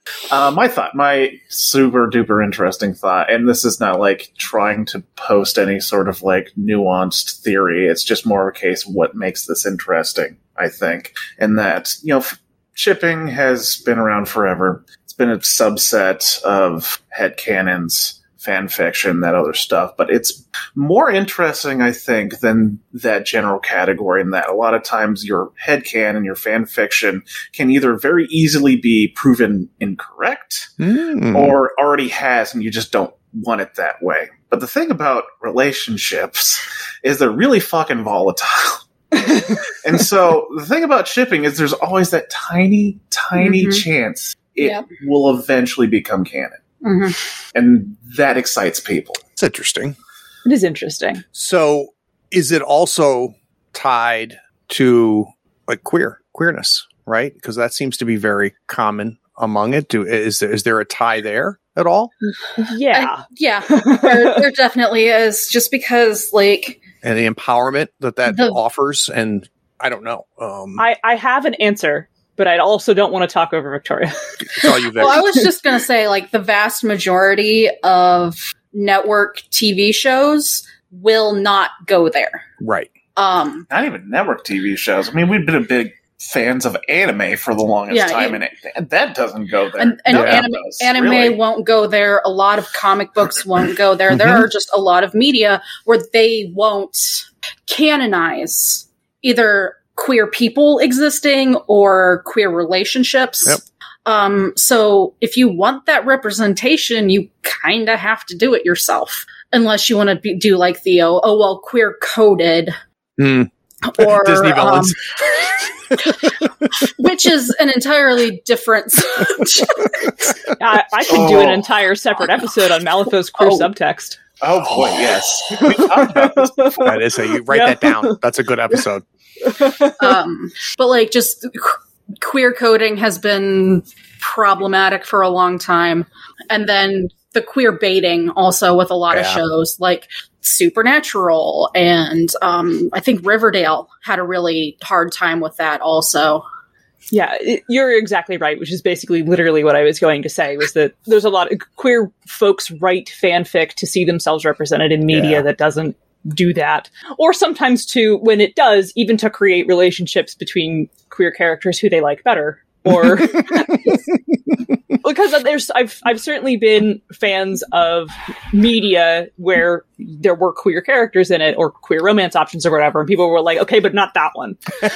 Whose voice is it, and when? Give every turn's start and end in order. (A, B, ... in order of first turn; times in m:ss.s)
0:00.3-0:30.7 A
0:30.8-0:31.6 B
0:31.3-0:46.6 A
0:43.4-0:43.8 C
0:46.8-0:47.2 C
0:47.6-0:49.2 A
0:49.4-0:50.0 B
0:50.4-0:51.2 D
0:51.3-1:02.1 B
1:02.6-1:04.4 D
1:02.9-1:06.8 C
1:07.0-1:10.9 B
1:08.3-1:08.6 C
1:10.8-1:14.1 D
1:14.6-1:15.3 B
1:14.9-1:22.4 C
1:22.6-1:22.9 B
1:23.2-1:23.7 C
1:23.7-1:31.4 A
1:27.9-1:28.4 C
1:29.8-1:52.8 C
1:30.1-1:30.5 B
1:34.1-1:34.5 B
1:53.2-1:55.0 B
1:53.8-1:55.0 C
1:56.0-1:56.3 C
1:56.8-2:00.3 C
2:00.6-2:04.2 D
2:01.1-2:01.6 A
2:03.4-2:03.7 C
2:04.4-2:06.9 A
2:05.5-2:08.2 D
2:06.8-2:09.0 B
2:09.4-2:10.1 D
2:10.0-2:26.4 C
2:19.1-2:19.4 B
2:27.1-2:44.1 D
2:35.1-2:35.4 B
2:45.0-2:54.6 D